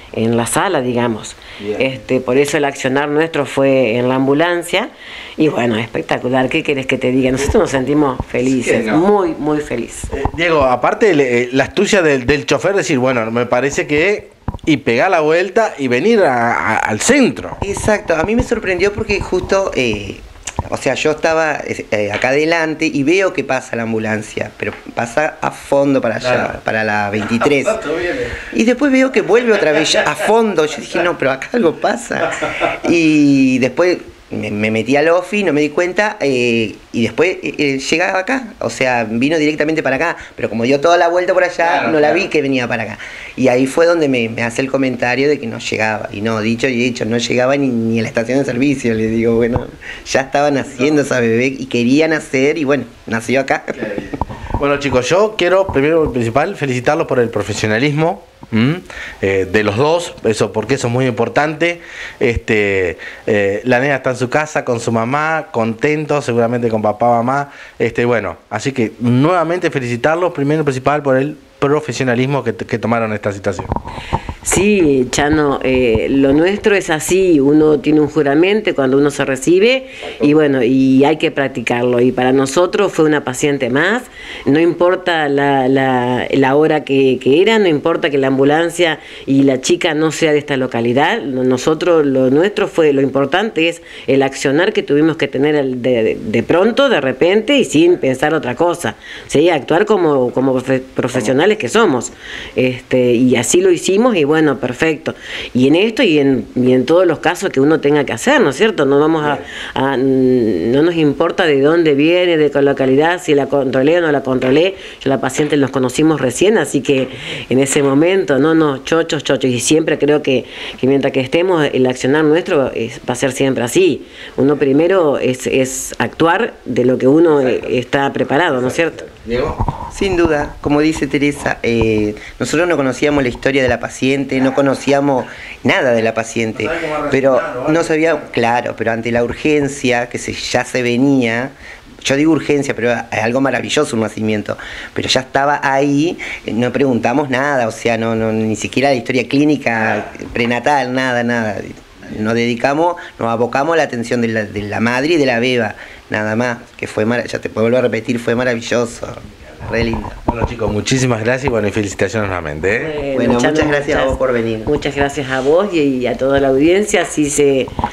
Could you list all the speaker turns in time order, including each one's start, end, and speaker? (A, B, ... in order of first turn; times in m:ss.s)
0:00.1-0:10.1 A
0:01.6-0:01.8 B
0:08.4-0:09.1 B
0:10.1-0:17.6 B
0:17.6-0:27.8 C
0:26.2-0:26.5 B
0:27.3-0:28.4 B
0:28.5-0:53.8 C
0:41.6-0:42.2 B
0:53.7-1:13.7 B
1:14.4-2:09.0 A
2:07.4-2:07.6 B
2:08.5-2:09.6 B
2:09.9-2:40.2 C
2:16.5-2:18.3 B
2:40.2-2:42.9 B
2:42.8-2:47.7 A
2:43.1-2:44.7 C